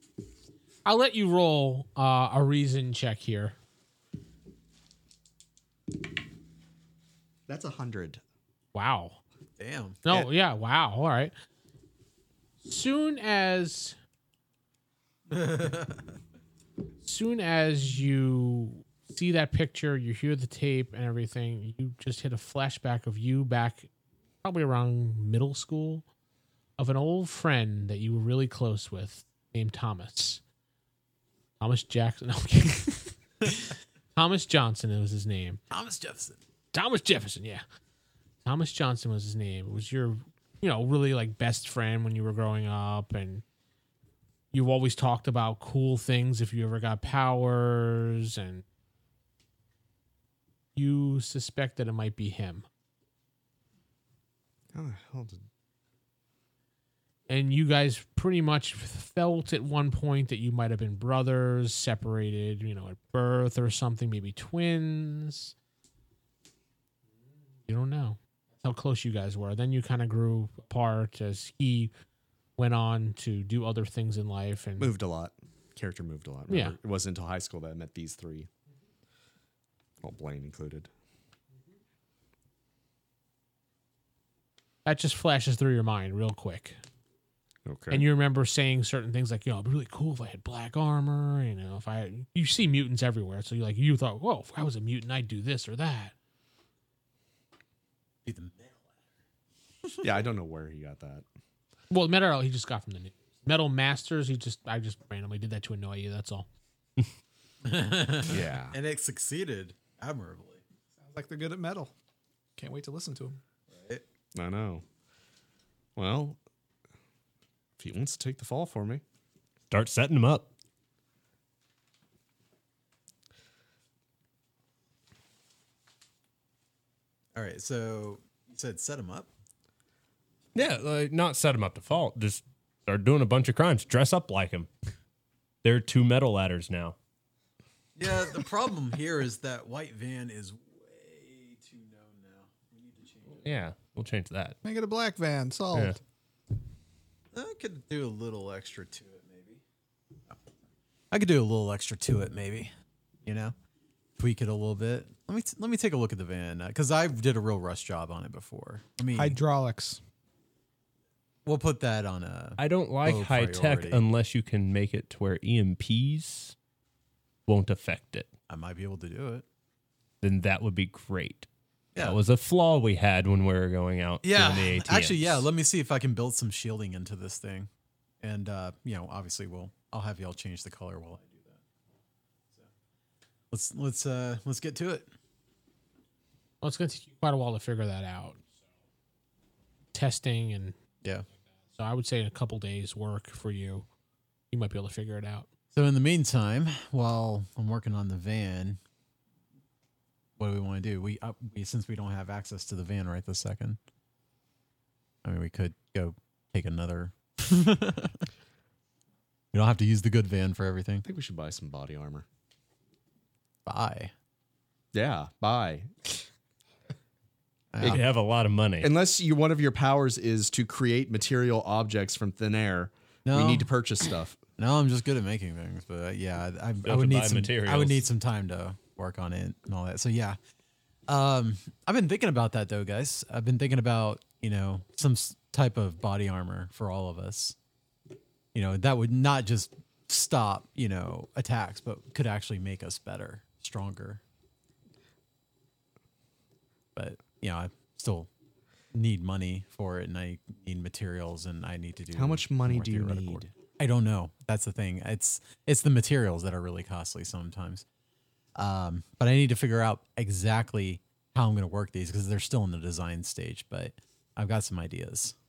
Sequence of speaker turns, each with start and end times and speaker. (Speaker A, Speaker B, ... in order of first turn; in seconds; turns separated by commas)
Speaker A: 0.8-3.5, Speaker B: 7.5-8.2, Speaker A: 8.7-9.2, Speaker C: 9.6-10.0, Speaker A: 10.0-11.3, Speaker A: 12.6-13.9, Speaker C: 15.3-16.1, Speaker A: 17.0-23.9, Speaker A: 24.4-26.0, Speaker A: 26.8-30.4, Speaker A: 31.6-35.6, Speaker C: 35.7-36.4, Speaker A: 36.7-37.6, Speaker A: 38.4-43.4, Speaker A: 44.5-48.6, Speaker A: 50.7-52.6, Speaker B: 54.7-55.4, Speaker A: 57.3-65.5, Speaker A: 67.7-71.9, Speaker A: 72.6-74.9, Speaker B: 74.8-78.5, Speaker A: 76.5-76.8, Speaker B: 80.0-80.9, Speaker A: 84.8-86.8, Speaker B: 87.6-88.0, Speaker A: 87.9-96.1, Speaker C: 98.2-98.9, Speaker C: 99.8-100.1, Speaker B: 100.0-101.2, Speaker A: 101.9-106.5, Speaker C: 107.6-110.6, Speaker B: 108.3-108.8, Speaker D: 111.0-111.9, Speaker D: 112.6-113.4, Speaker C: 113.7-114.0, Speaker B: 114.3-114.8, Speaker B: 116.0-116.4, Speaker B: 117.8-119.0, Speaker E: 119.7-120.5, Speaker C: 127.3-129.3, Speaker E: 130.5-134.7, Speaker E: 135.6-136.9, Speaker C: 137.9-143.5, Speaker E: 143.4-144.6, Speaker D: 144.6-146.0, Speaker E: 145.7-146.0, Speaker C: 147.3-149.6, Speaker C: 151.1-152.7, Speaker C: 153.2-153.5, Speaker C: 154.2-159.4, Speaker D: 159.1-160.0, Speaker C: 161.4-164.0, Speaker E: 162.6-166.5, Speaker E: 167.4-168.3, Speaker C: 168.5-169.4, Speaker E: 170.2-175.4, Speaker C: 174.2-177.7, Speaker C: 178.2-181.6, Speaker C: 183.5-185.1, Speaker A: 186.6-188.4, Speaker A: 189.9-190.7, Speaker A: 191.7-193.8, Speaker A: 194.5-195.5, Speaker C: 195.7-198.8, Speaker C: 200.4-203.8, Speaker C: 205.2-208.3, Speaker C: 209.5-211.1, Speaker B: 211.1-212.2, Speaker C: 213.7-214.1, Speaker B: 214.9-216.2, Speaker C: 217.7-218.0, Speaker E: 217.8-218.9, Speaker B: 218.8-224.4, Speaker C: 223.2-223.7, Speaker C: 224.6-230.4, Speaker E: 226.8-228.0, Speaker C: 231.1-237.6, Speaker C: 238.5-244.2, Speaker C: 246.9-248.3, Speaker C: 248.9-257.8, Speaker B: 252.1-253.5, Speaker C: 258.6-265.4